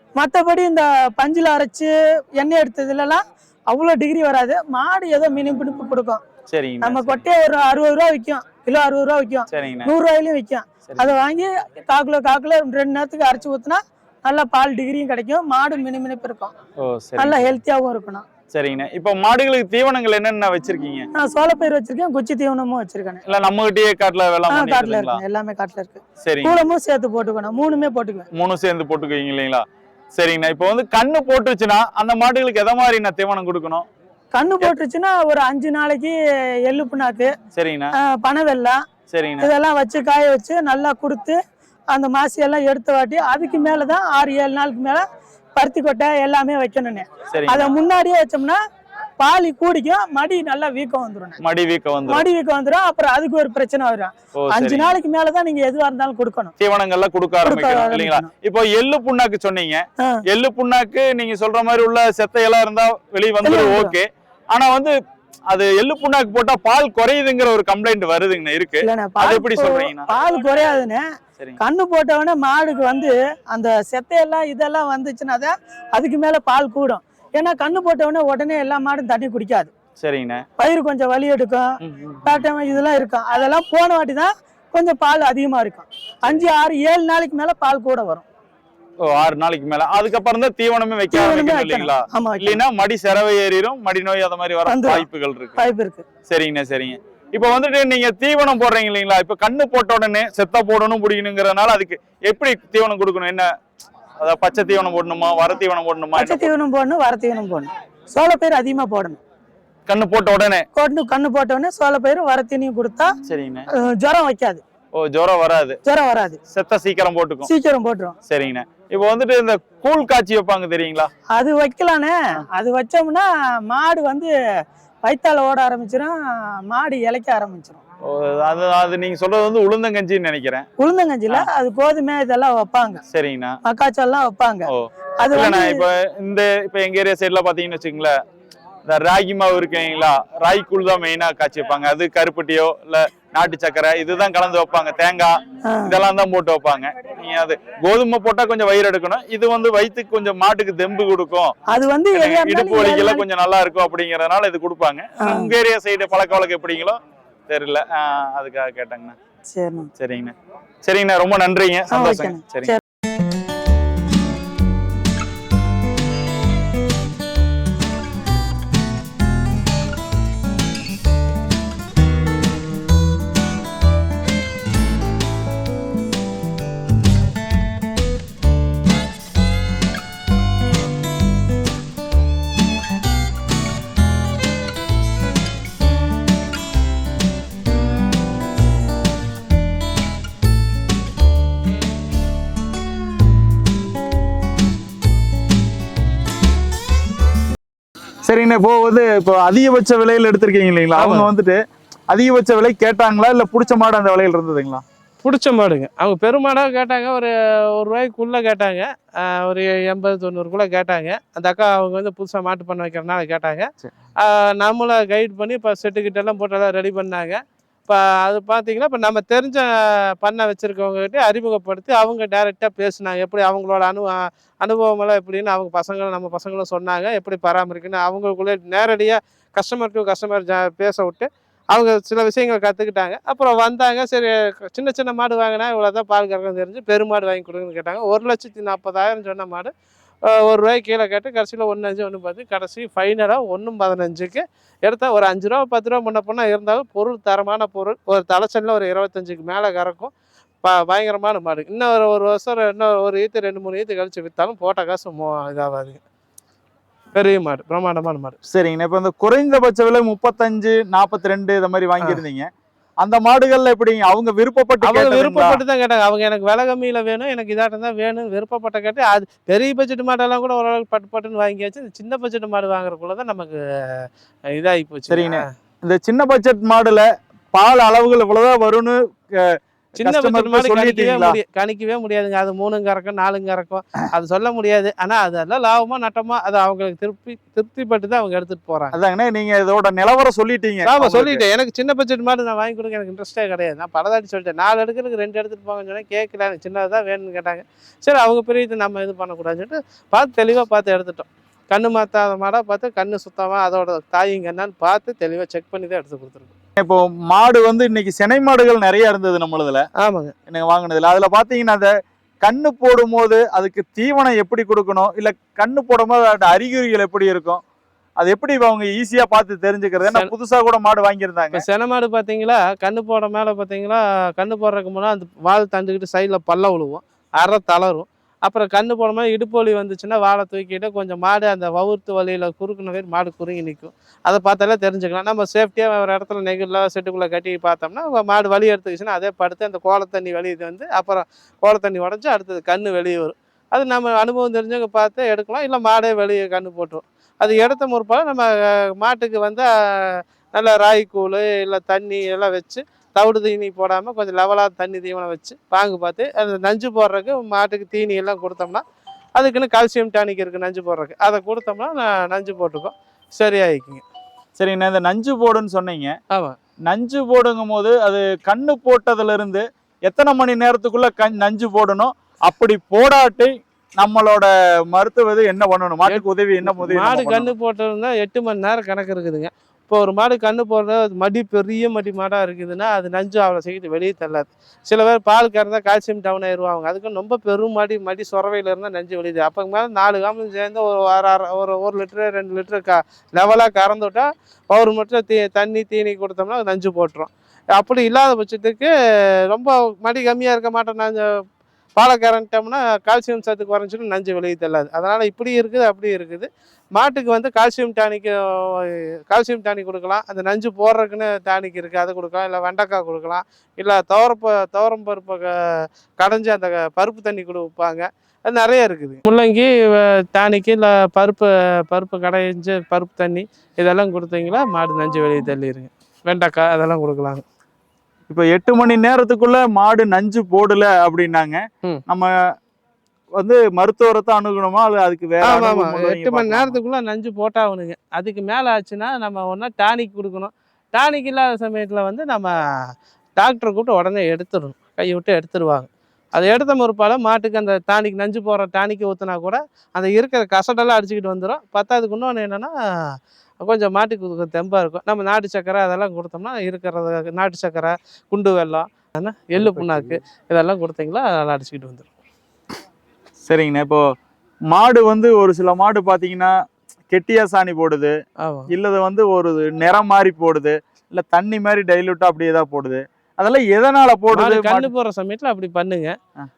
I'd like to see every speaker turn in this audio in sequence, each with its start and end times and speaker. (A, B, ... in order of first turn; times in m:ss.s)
0:00.2-0:06.2 A
0:06.5-0:07.2 B
0:06.8-0:16.5 A
0:09.5-0:09.9 B
0:10.9-0:11.1 B
0:16.8-0:17.6 B
0:17.2-0:18.2 A
0:18.5-0:21.1 B
0:21.1-0:23.2 A
0:23.2-0:25.2 B
0:24.5-0:28.3 A
0:26.2-0:26.6 B
0:28.3-0:29.6 B
0:30.1-0:33.9 B
0:34.3-0:37.3 A
0:37.5-0:37.9 B
0:38.0-0:38.8 A
0:39.1-0:39.5 B
0:39.4-0:41.4 A
0:41.9-0:45.0 A
0:45.6-0:48.6 A
0:47.3-0:47.7 B
0:49.2-0:51.4 A
0:51.4-0:52.2 B
0:52.1-0:56.5 A
0:54.3-0:54.9 B
0:56.6-1:04.9 B
0:57.4-0:58.3 A
1:03.4-1:04.0 A
1:05.5-1:10.1 B
1:08.8-1:11.0 A
1:11.6-1:19.7 A
1:20.0-1:20.4 B
1:20.6-1:21.6 A
1:21.8-1:22.5 B
1:22.2-1:28.2 A
1:29.0-1:35.6 B
1:31.1-1:32.6 A
1:34.7-1:36.0 A
1:36.3-1:43.5 B
1:44.2-1:46.5 B
1:46.2-1:49.2 A
1:49.9-1:50.6 B
1:50.7-1:53.1 A
1:53.2-1:53.7 B
1:53.8-1:54.6 A
1:54.9-1:55.8 B
1:55.8-1:56.4 A
1:56.5-1:57.5 B
1:57.4-1:58.2 A
1:58.3-2:01.1 B
2:01.3-2:04.3 A
2:05.0-2:07.8 A
2:08.0-2:10.6 B
2:10.8-2:13.0 A
2:13.1-2:13.6 B
2:13.6-2:14.7 A
2:14.7-2:18.1 B
2:15.2-2:15.8 A
2:18.8-2:31.5 B
2:25.6-2:26.0 A
2:31.7-2:33.2 A
2:32.1-2:39.2 B
2:35.2-2:35.5 A
2:39.5-2:39.9 A
2:40.0-2:42.7 B
2:41.9-2:42.8 A
3:18.2-3:21.6 B
3:21.0-3:21.3 C
3:22.1-3:24.8 B
3:25.2-3:59.7 C
4:00.2-4:10.1 C
4:10.6-4:16.0 C
4:17.1-4:18.4 C
4:18.5-4:22.5 B
4:23.0-4:25.6 B
4:24.8-4:35.5 C
4:35.1-4:41.4 B
4:40.0-4:48.9 C
4:48.9-4:51.4 B
4:50.8-5:06.5 C
5:06.8-5:09.9 B
5:10.0-5:10.3 C
5:10.5-5:11.9 B
5:12.4-5:17.6 B
5:18.2-5:21.6 B
5:20.0-5:20.3 C
5:21.5-5:58.8 C
5:59.4-6:04.0 C
6:04.6-6:06.2 B
6:06.9-6:17.5 B
6:16.0-6:38.9 C
6:39.5-6:41.3 C
6:42.0-7:07.4 C
7:08.3-7:12.3 B
7:13.4-7:16.8 B
7:15.4-7:22.5 C
7:23.4-7:42.1 C
7:39.6-7:40.2 B
7:43.4-7:44.0 B
7:44.7-7:46.5 B
7:47.1-7:48.1 B
7:48.4-7:48.7 C
7:48.7-7:54.9 B
7:54.3-7:56.1 C